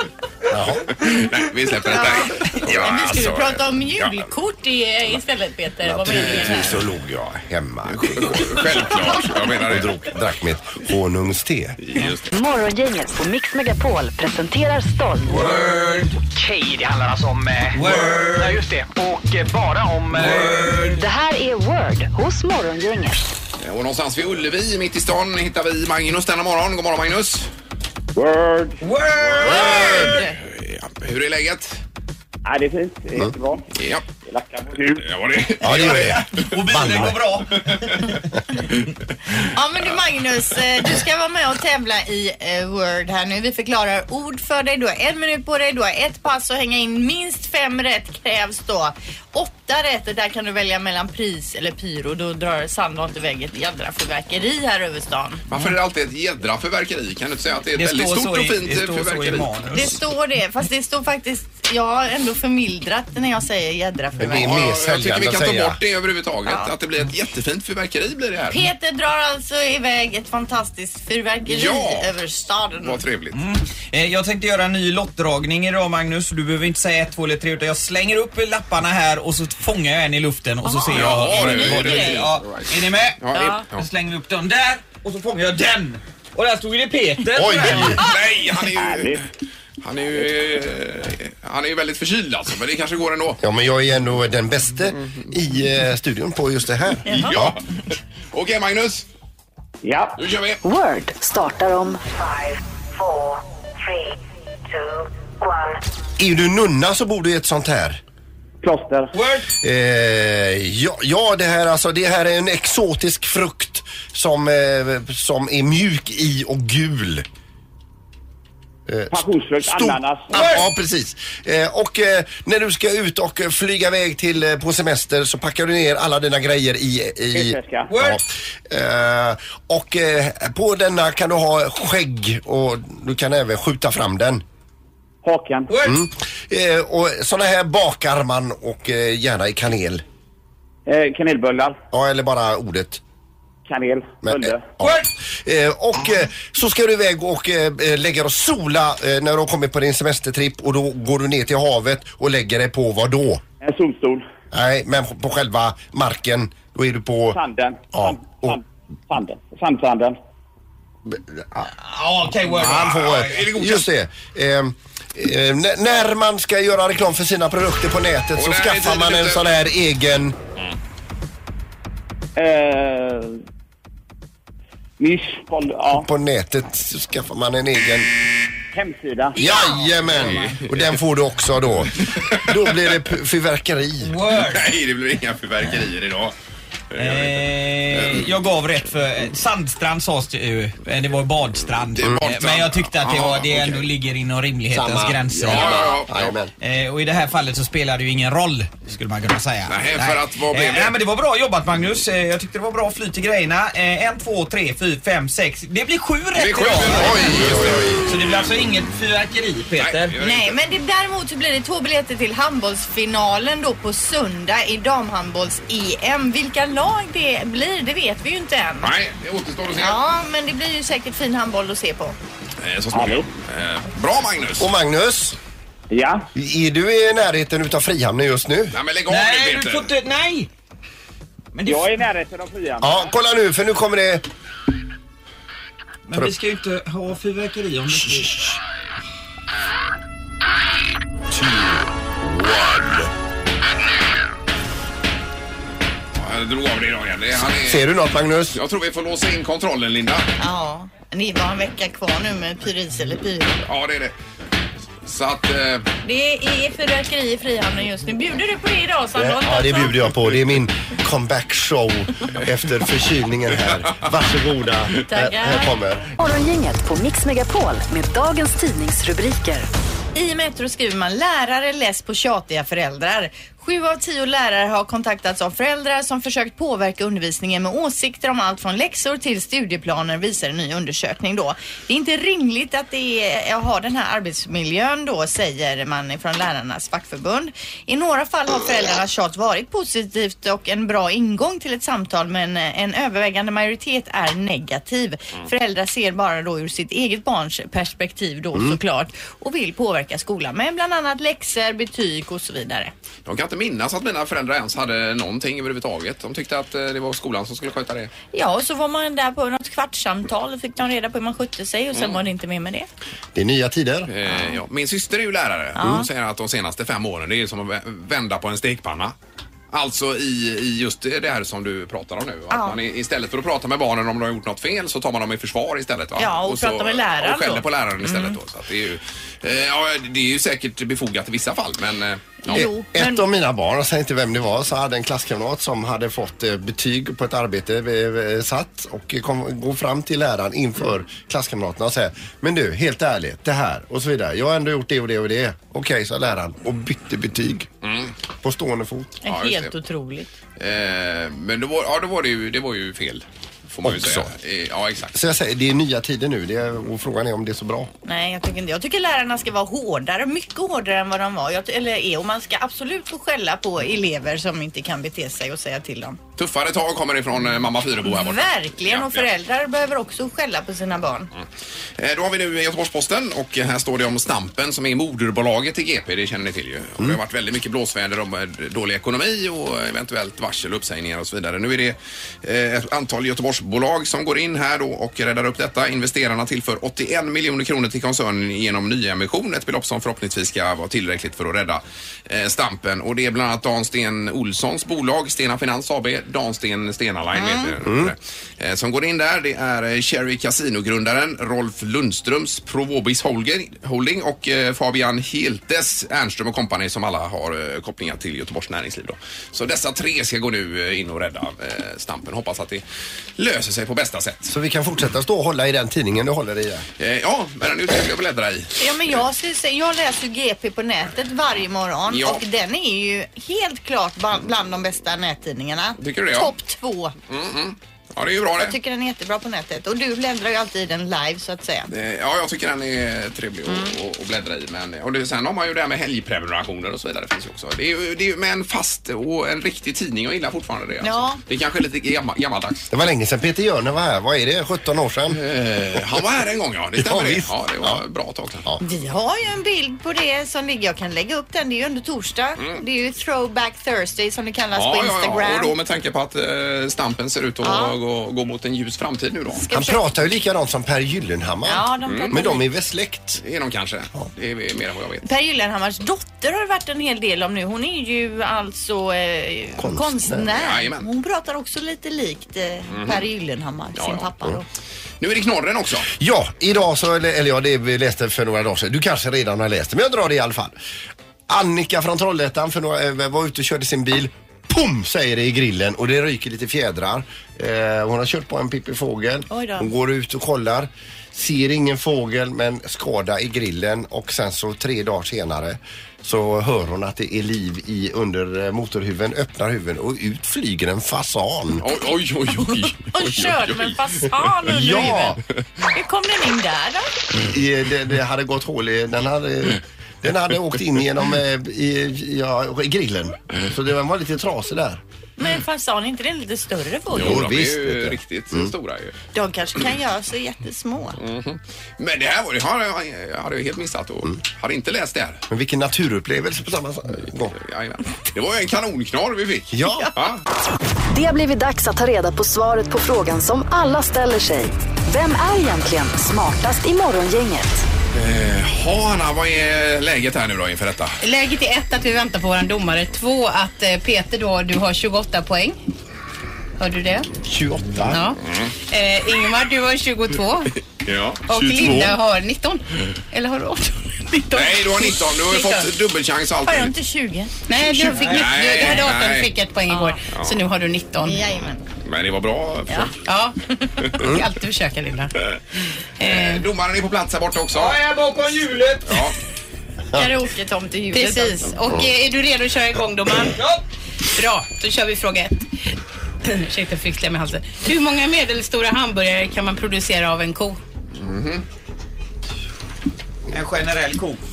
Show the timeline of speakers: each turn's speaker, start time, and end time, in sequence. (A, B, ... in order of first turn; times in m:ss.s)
0:00.5-0:00.9 A
0:01.0-0:04.3 B
0:01.9-0:06.8 C
0:05.8-0:08.8 A
0:06.1-0:06.7 B
0:07.9-0:10.1 B
0:09.6-0:11.8 A
0:11.8-0:12.3 B
0:12.3-0:15.4 D
0:15.2-0:16.2 E
0:16.3-0:20.9 F
0:17.7-0:18.6 E
0:20.1-0:21.0 E
0:20.9-0:23.2 D
0:23.6-0:27.5 B
0:28.1-0:28.8 G
0:28.8-0:30.2 E
0:29.4-0:30.4 C
0:29.5-0:31.8 B
0:32.4-0:33.7 G
0:33.8-0:34.0 B
0:34.2-0:35.1 G
0:35.0-0:36.4 B
0:35.6-0:37.2 A
0:35.7-0:38.1 E
0:39.4-0:55.4 C
0:55.5-0:59.6 B
0:57.8-1:00.0 E
0:59.7-1:04.7 C
1:04.2-1:05.8 A
1:04.2-1:08.7 B
1:06.4-1:06.7 C
1:08.5-1:13.0 C
1:11.4-1:12.1 B
1:12.8-1:13.4 B
1:13.3-1:23.2 E
1:20.6-1:22.3 C
1:20.9-1:22.7 B
1:23.2-1:23.8 B
1:23.3-1:23.6 C
1:23.7-1:28.0 E
1:27.3-1:28.0 A
1:27.9-1:29.2 B
1:28.7-1:29.2 G
1:29.8-1:33.4 B
1:33.4-1:37.6 A
1:37.1-1:37.6 B
1:38.3-1:39.0 B
1:39.8-1:40.2 G
1:40.2-1:40.6 B
1:40.6-1:42.0 D
1:46.2-1:48.0 A
1:48.6-1:49.1 G
1:49.1-1:49.5 E
1:49.6-1:57.2 A
1:58.9-2:14.4 A
1:59.1-2:00.3 G
2:00.3-2:00.7 E
2:07.3-2:07.9 G
2:07.9-2:08.2 E
2:15.2-2:15.7 G
2:15.7-2:16.0 E
2:15.8-2:20.0 A
2:20.9-2:21.8 G
2:21.9-2:23.0 A
2:23.6-2:24.7 G
2:24.2-2:33.4 A
2:24.8-2:25.1 E
2:33.6-2:34.2 G
2:34.5-2:37.4 A
2:37.3-2:40.2 G
2:37.9-2:38.6 A
2:41.1-2:41.7 A
2:41.7-2:43.4 E
2:42.4-2:50.4 A
2:42.6-2:43.8 B
2:48.3-2:49.4 B
2:52.4-2:53.4 G
2:55.0-2:56.1 G
2:55.9-2:58.1 A
2:58.7-2:59.4 G
2:59.3-3:04.1 A
2:59.4-2:59.6 C
2:59.5-3:00.6 E
3:00.2-3:00.9 B
3:02.0-3:02.7 B
3:04.0-3:04.6 E
3:04.4-3:06.3 B
3:06.9-3:08.2 B
3:07.0-3:15.9 E
3:11.9-3:13.8 B
3:14.7-3:16.5 A
3:15.4-3:16.3 B
3:16.6-3:27.4 E
3:19.7-3:21.0 B
3:26.3-3:28.3 B
3:26.9-3:28.1 A
3:28.0-3:30.1 E
3:29.8-3:30.6 B
3:30.2-3:38.9 C
3:38.8-3:40.0 B
3:39.7-3:42.2 C
3:42.6-3:44.7 B
3:42.9-3:43.3 G
3:44.6-3:45.4 A
3:45.9-3:46.3 G
3:46.3-3:48.8 A
3:48.7-3:49.9 B
3:49.1-3:50.5 E
3:51.5-3:52.0 E
3:51.6-3:53.0 G
3:52.8-3:54.2 A
3:56.1-3:58.6 E
4:01.3-4:03.1 A
4:06.2-4:07.8 B
4:07.6-4:08.6 A
4:08.5-4:10.3 B
4:10.4-4:13.6 C
4:13.6-4:14.1 B
4:15.0-4:15.9 B
4:16.0-4:20.1 C
4:19.1-4:26.1 A
4:25.1-4:25.7 C
4:26.2-4:29.7 D
4:30.1-5:02.9 C
5:03.2-5:08.1 B
5:08.3-5:12.9 C
5:11.9-5:12.2 B
5:13.3-5:14.1 A
5:14.1-5:19.1 B
5:15.8-5:16.1 C
5:19.7-5:32.7 B
5:22.5-5:22.8 C
5:26.2-5:28.4 C
5:32.4-5:33.2 C
5:32.5-5:47.7 A
5:47.8-5:48.1 B
5:48.4-5:49.2 A
5:49.2-5:50.3 C
5:49.2-5:49.7 B
5:50.6-5:55.2 B
5:53.8-5:54.3 A
5:55.1-5:57.9 A
5:58.0-6:06.2 C
6:06.4-6:09.3 B
6:08.0-6:11.3 C
6:12.0-6:52.8 B
6:37.3-6:37.7 C
6:37.8-6:38.1 A
6:53.4-6:54.5 B
6:54.5-6:56.8 A
6:57.0-6:58.8 B
6:58.8-7:07.1 C
7:02.1-7:02.4 B
7:06.0-7:06.5 B
7:07.3-7:08.8 B
7:08.6-7:11.9 C
7:11.9-7:22.9 B
7:13.7-7:13.9 C
7:21.0-7:21.4 C
7:22.9-7:25.4 A
7:25.3-7:28.6 B
7:27.0-7:28.0 A
7:28.8-7:35.7 C
7:34.7-7:39.6 B
7:37.6-7:38.0 C
7:39.5-7:40.0 C
7:39.7-7:43.4 A
7:41.6-7:42.6 C
7:42.0-7:42.4 B
7:43.4-7:45.2 B
7:45.2-7:54.6 C
7:49.8-7:50.5 A
7:50.5-7:51.0 B
7:52.9-7:53.2 B
7:53.9-7:54.3 B
7:55.2-7:56.1 B
7:56.1-8:00.7 A
8:01.5-8:21.8 A
8:09.5-8:09.9 C
8:21.8-8:24.1 B
8:22.6-8:25.4 C
8:24.7-8:25.4 A
8:25.9-8:27.1 C
8:27.4-8:35.0 A
8:35.4-8:37.4 C
8:37.1-8:39.1 B
8:37.1-8:38.7 A
8:39.3-8:41.2 C
8:41.2-8:45.4 B
8:45.5-8:47.6 A
8:47.6-8:50.4 B
8:49.7-8:50.1 A
8:51.1-8:57.8 D
8:58.1-9:01.2 B
9:01.2-9:05.8 H
9:06.8-9:07.3 H
9:07.4-9:08.2 A
9:08.1-9:10.7 H
9:08.4-9:08.7 B
9:11.0-9:12.2 B
9:11.5-9:15.8 H
9:14.5-9:16.9 B
9:16.6-9:19.1 C
9:17.7-9:21.4 H
9:18.2-9:18.5 E
9:18.2-9:19.5 B
9:19.9-9:20.2 C
9:20.3-9:20.6 B
9:21.2-9:21.8 C
9:22.0-9:23.1 B
9:23.2-9:23.6 H
9:24.1-9:25.3 H
9:24.2-9:24.4 A
9:26.2-9:26.6 H
9:26.2-9:28.0 B
9:27.7-9:29.2 E
9:29.1-9:29.4 B
9:30.1-9:31.8 C
9:31.1-9:33.6 H
9:33.6-9:33.8 E
9:34.3-9:35.9 H
9:36.4-9:40.8 H
9:41.1-9:41.6 B
9:43.5-9:44.4 E